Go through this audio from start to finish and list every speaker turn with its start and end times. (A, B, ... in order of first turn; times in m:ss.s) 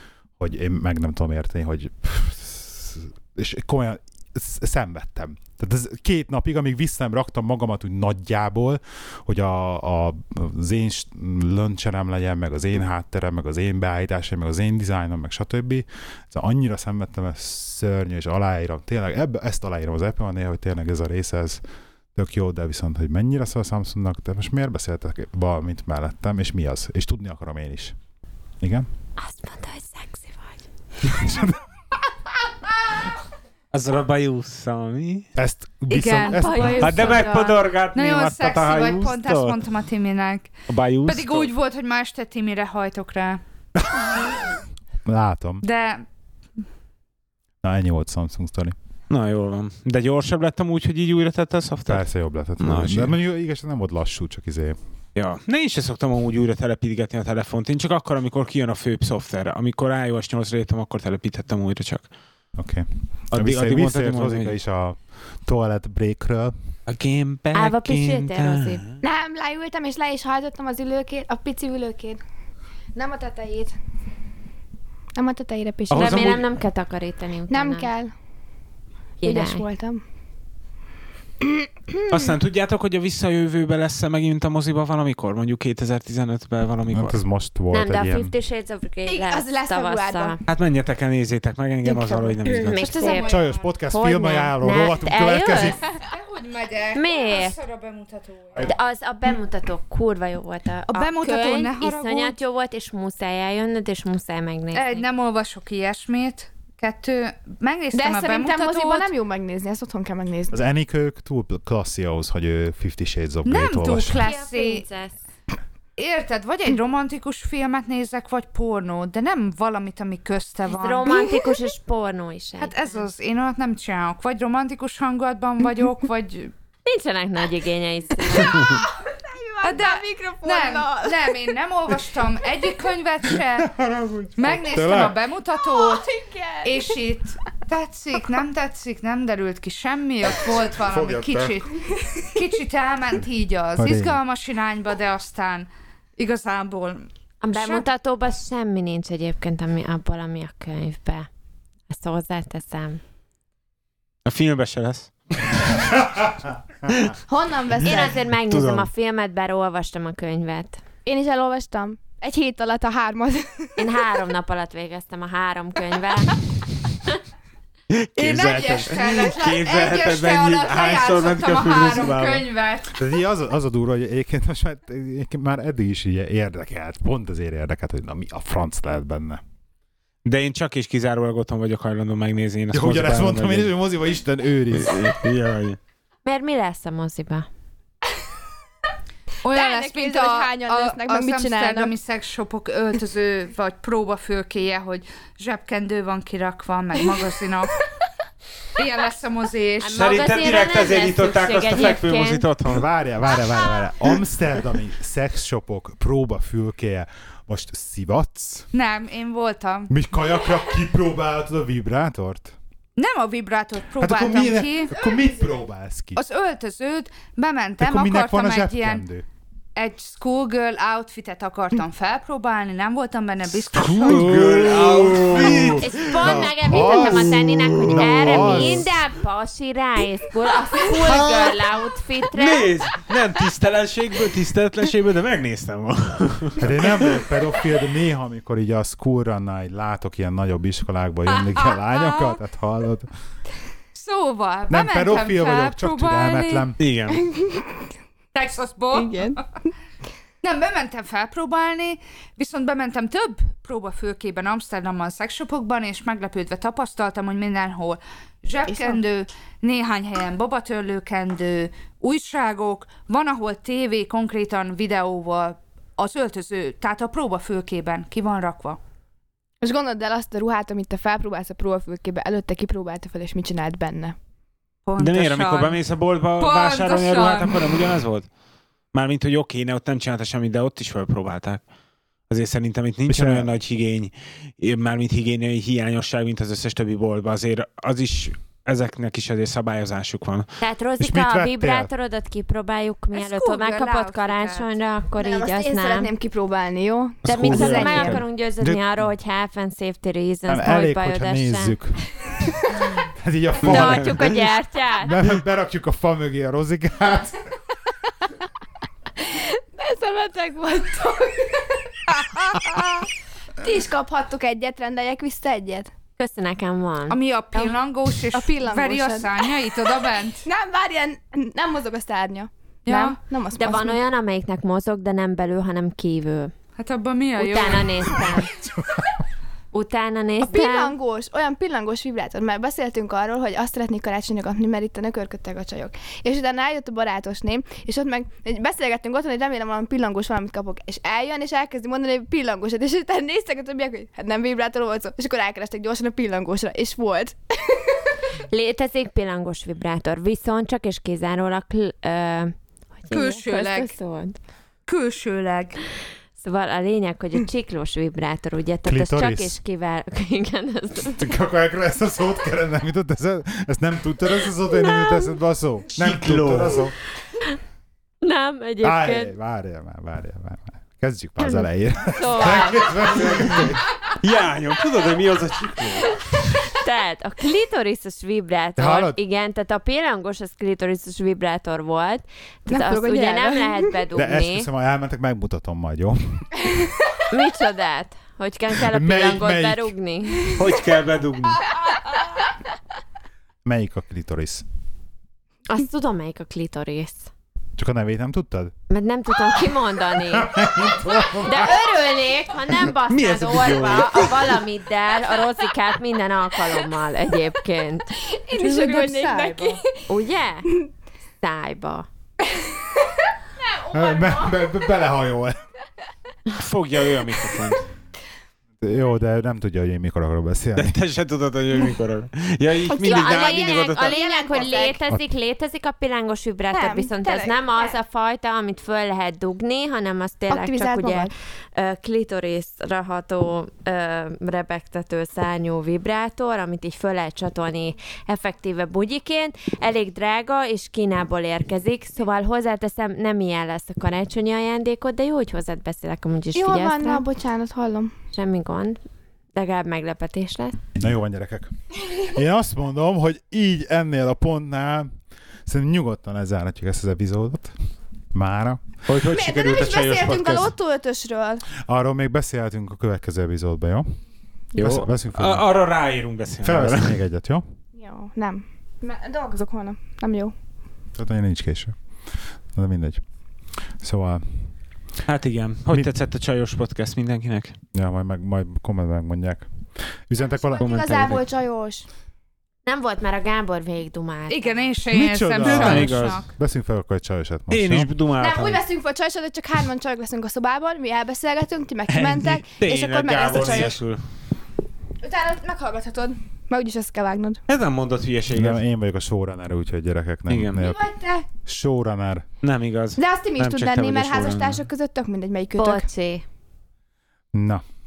0:00.4-0:21.6 A
0:22.2-0:28.0 A
0:28.6-0:28.9 A
0:29.2-0:30.6 B
0:31.0-0:31.6 A
0:33.7-0:35.3 C
0:35.4-0:37.3 A
0:35.9-0:36.8 D
0:35.9-0:37.6 B
0:36.8-0:39.6 C
0:37.9-0:40.5 D
0:40.7-0:41.5 C
0:41.1-0:43.4 D
0:43.8-0:45.6 A
0:45.6-0:46.0 D
0:47.6-0:48.8 A
0:49.1-0:52.1 C
0:51.9-0:54.8 A
0:52.6-0:53.2 C
0:55.2-1:02.1 C
1:02.6-1:06.5 A
1:03.3-1:04.5 C
1:06.9-1:09.0 C
1:07.5-1:08.8 B
1:09.0-1:12.2 E
1:13.0-1:13.8 E
1:15.2-1:16.4 E
1:15.9-1:16.4 C
1:15.9-1:16.4 A
1:15.9-1:17.9 B
1:17.5-1:18.1 E
1:19.2-1:19.6 B
1:19.2-1:20.0 E
1:22.1-1:27.2 C
1:26.9-1:28.3 A
1:27.7-1:30.4 B
1:29.1-1:30.4 E
1:30.5-1:32.8 C
1:31.8-1:33.3 E
1:32.6-1:35.8 B
1:32.8-1:33.6 D
1:33.1-1:35.8 A
1:36.0-1:38.7 D
1:37.0-1:37.6 B
1:38.6-1:45.0 B
1:40.9-1:42.4 D
1:44.7-1:49.1 D
1:47.9-1:50.6 E
1:50.5-1:54.2 A
1:53.4-1:54.8 D
1:54.2-1:55.1 B
1:56.0-2:01.4 D
2:00.7-2:03.0 B
2:02.6-2:06.5 D
2:06.9-2:08.8 B
2:09.1-2:11.4 E
2:09.6-2:13.7 D
2:13.4-2:15.2 A
2:14.4-2:16.1 D
2:15.6-2:17.0 E
2:16.6-2:21.8 D
2:20.2-2:21.6 A
2:22.4-2:27.8 D
2:23.8-2:24.2 A
2:27.4-2:31.3 B
2:31.9-2:33.0 B
2:34.3-2:35.8 C
2:36.0-2:36.3 A
2:37.3-2:38.2 E
2:37.8-2:40.8 B
2:38.5-2:38.9 C
2:41.0-2:43.8 E
2:43.8-2:46.4 B
2:47.9-2:52.5 C
2:48.2-2:53.0 D
2:53.0-2:59.4 A
3:00.3-3:03.7 C
3:02.7-3:05.2 A
3:04.8-3:05.8 C
3:06.3-3:07.5 B
3:09.4-3:17.8 D
3:09.5-3:11.9 E
3:18.8-3:20.0 D
3:19.8-3:22.4 B
3:19.9-3:22.9 C
3:22.6-3:28.7 A
3:28.7-3:29.9 D
3:29.9-3:32.6 A
3:33.0-3:34.9 D
3:34.0-3:36.2 A
3:36.2-3:39.0 D
3:37.8-3:39.2 A
3:39.8-3:44.3 D
3:43.8-3:49.0 A
3:43.8-3:48.8 C
3:45.8-3:52.7 B
3:51.1-3:51.5 C
3:52.3-3:57.2 C
3:56.6-4:03.1 A
4:01.4-4:02.4 D
4:04.0-4:06.7 D
4:04.7-4:06.8 A
4:06.8-4:07.3 C
4:07.1-4:07.9 E
4:08.3-4:09.3 D
4:08.9-4:09.4 E
4:10.4-4:28.8 D
4:18.7-4:19.0 E
4:29.6-4:34.2 E
4:34.9-4:35.8 D
4:35.0-4:38.3 C
4:36.4-4:37.6 D
4:38.9-4:41.6 C
4:42.3-4:50.5 C
4:43.1-4:43.5 A
4:50.6-4:56.1 B
4:51.0-4:51.9 A
4:53.2-4:54.7 D
4:55.2-4:58.2 E
4:57.2-4:58.2 C
4:57.3-5:01.8 B
4:58.6-4:59.1 A
5:00.5-5:04.4 A
5:03.6-5:05.2 B
5:03.6-5:04.4 C
5:05.0-5:07.5 A
5:09.2-5:12.9 E
5:12.3-5:13.1 D
5:13.6-5:15.9 E
5:16.2-5:17.2 B
5:17.1-5:20.4 D
5:18.3-5:19.6 E
5:20.4-5:24.0 E
5:22.9-5:23.2 D
5:23.6-5:26.5 B
5:26.8-5:28.3 D
5:27.4-5:28.5 B
5:29.7-5:30.9 B
5:30.4-5:48.0 E
5:48.5-5:54.4 B
5:53.1-5:53.9 D
5:54.9-5:55.8 D
5:56.4-6:01.3 B
5:58.9-5:59.6 A
6:01.2-6:06.9 A
6:06.0-6:06.8 C
6:08.2-6:09.4 B
6:08.8-6:13.8 A
6:11.4-6:12.9 B
6:14.2-6:16.4 C
6:16.7-6:24.7 B
6:18.8-6:19.2 A
6:22.7-6:23.9 E
6:24.2-6:26.5 A
6:27.3-6:30.5 B
6:28.7-6:30.0 A
6:30.6-6:31.6 C
6:33.6-6:34.6 A
6:35.7-6:37.3 B
6:37.8-6:38.7 A
6:38.9-6:40.7 B
6:40.3-6:42.0 A
6:41.3-6:50.8 B
6:43.1-6:44.6 C
6:48.3-6:50.0 E
6:51.4-6:52.1 B
6:53.9-6:55.6 A
6:56.6-6:57.9 C
6:58.8-7:01.0 A
7:00.8-7:04.2 C
7:02.9-7:05.0 E
7:03.0-7:27.2 B
7:06.7-7:08.0 E
7:10.5-7:11.3 E
7:26.5-7:28.1 E
7:28.3-7:29.0 B
7:29.6-7:30.8 B
7:31.0-7:35.1 A
7:35.7-7:37.7 A
7:38.3-7:38.9 A
7:39.1-7:40.8 C
7:39.2-7:41.6 E
7:41.8-7:44.2 A
7:44.8-7:47.2 C
7:44.8-7:45.7 A
7:46.6-7:47.6 A
7:47.9-7:50.5 E
7:51.2-7:52.0 A
7:52.7-7:53.2 A
7:54.0-7:54.7 A
7:55.2-7:57.8 C
7:57.9-8:01.1 A
8:00.4-8:02.1 E
8:00.8-8:01.4 C
8:02.9-8:04.9 B
8:04.5-8:06.5 D
8:05.1-8:08.1 A
8:05.6-8:06.5 C
8:07.7-8:08.8 C
8:08.4-8:14.0 E
8:12.1-8:14.2 C
8:15.2-8:17.6 E
8:17.7-8:18.8 C
8:18.5-8:21.0 A
8:20.5-8:20.9 C
8:20.8-8:21.4 E
8:21.6-8:22.5 A
8:22.6-8:24.8 C
8:23.2-8:26.1 E
8:25.8-8:26.4 B
8:27.5-8:27.8 A